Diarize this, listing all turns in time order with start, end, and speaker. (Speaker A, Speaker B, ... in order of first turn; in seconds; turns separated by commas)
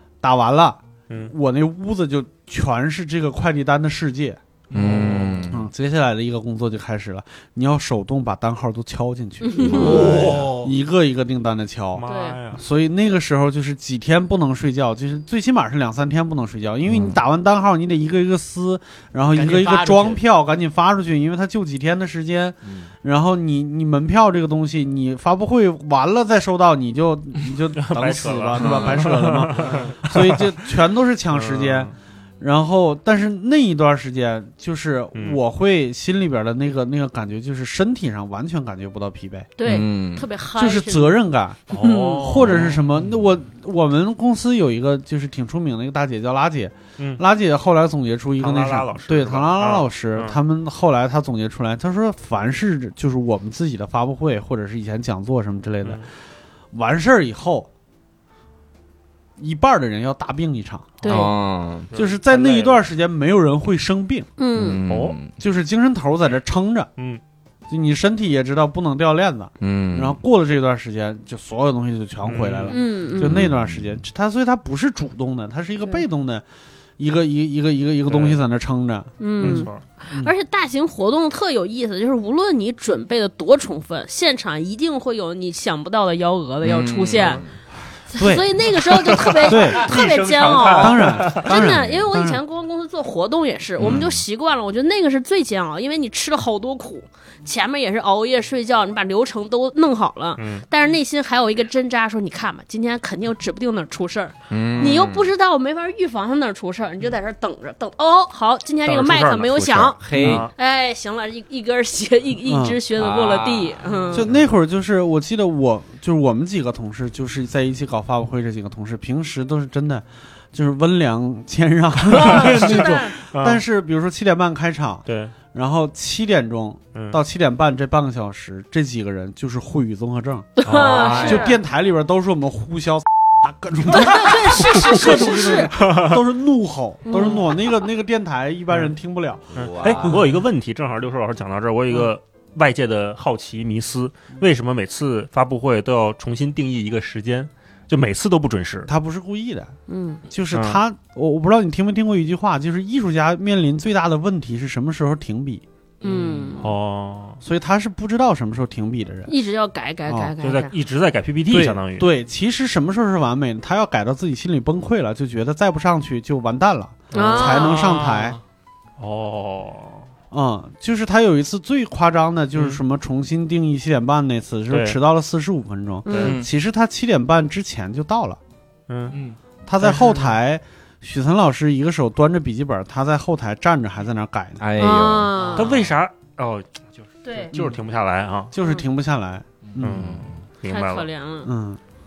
Speaker A: 0.2-4.4, Speaker B: 4.7-5.2, Speaker C: 4.7-5.7, Speaker D: 4.7-5.5, Speaker A: 5.5-39.5, Speaker E: 9.4-10.0, Speaker C: 9.6-10.3, Speaker B: 9.7-10.7, Speaker D: 9.8-10.5, Speaker D: 11.9-12.6, Speaker E: 12.1-12.4, Speaker C: 16.9-17.2, Speaker B: 19.3-20.2, Speaker B: 22.6-22.9, Speaker D: 27.8-30.5, Speaker B: 29.6-30.0, Speaker D: 31.3-31.9, Speaker E: 39.6-41.2, Speaker C: 39.6-40.2, Speaker A: 40.5-56.1, Speaker D: 41.7-42.9, Speaker E: 41.8-42.3, Speaker D: 48.4-50.4, Speaker A: 56.7-57.7, Speaker A: 59.4-61.1, Speaker E: 61.0-61.3, Speaker C: 61.1-61.9, Speaker D: 61.9-62.8, Speaker A: 61.9-64.3, Speaker E: 64.4-64.8, Speaker C: 64.5-65.3, Speaker D: 64.9-65.2, Speaker A: 65.3-66.9, Speaker A: 67.7-76.4, Speaker C: 69.6-70.2, Speaker D: 72.2-72.8, Speaker E: 72.7-73.4, Speaker C: 73.2-74.0, Speaker A: 77.0-80.3, Speaker D: 78.1-78.4, Speaker E: 79.2-87.4, Speaker D: 79.4-79.8, Speaker C: 86.6-87.5, Speaker E: 88.1-114.3, Speaker A: 88.1-88.5, Speaker D: 89.0-91.5, Speaker A: 89.4-92.4, Speaker C: 93.8-94.2, Speaker D: 100.4-100.6, Speaker C: 104.5-105.3, Speaker D: 108.8-110.5, Speaker C: 110.0-110.5, Speaker A: 110.2-110.5, Speaker A: 112.4-112.8, Speaker D: 113.0-114.4, Speaker A: 114.1-140.3, Speaker D: 122.1-123.6, Speaker E: 122.1-123.1, Speaker D: 125.0-125.3, Speaker E: 130.6-131.6, Speaker D: 130.6-131.6, Speaker E: 133.9-135.7, Speaker D: 134.6-136.2, Speaker E: 137.1-137.4, Speaker D: 139.5-148.9, Speaker C: 139.6-140.2, Speaker A: 148.8-149.7, Speaker E: 149.9-150.2, Speaker A: 150.3-155.6, Speaker D: 150.5-150.8, Speaker E: 156.0-156.7, Speaker B: 156.0-156.5, Speaker D: 156.6-157.4, Speaker A: 157.4-159.3, Speaker E: 159.3-160.7, Speaker A: 160.1-160.3, Speaker D: 160.4-162.1, Speaker A: 161.5-168.4, Speaker D: 167.1-167.9, Speaker E: 167.1-168.0, Speaker B: 167.7-168.3, Speaker D: 169.0-170.1, Speaker A: 170.3-178.4, Speaker D: 172.5-172.8, Speaker D: 174.7-175.0, Speaker E: 176.0-176.4, Speaker D: 176.1-176.4, Speaker D: 178.9-179.2, Speaker B: 179.1-179.4, Speaker A: 179.7-184.6, Speaker D: 179.8-180.3, Speaker C: 184.6-185.3, Speaker E: 184.8-185.7, Speaker B: 185.4-185.8, Speaker D: 185.6-188.5, Speaker E: 187.2-187.5, Speaker A: 187.5-187.8, Speaker A: 188.5-190.1, Speaker D: 189.8-191.1, Speaker C: 189.9-190.3, Speaker E: 190.7-191.5, Speaker A: 191.4-191.8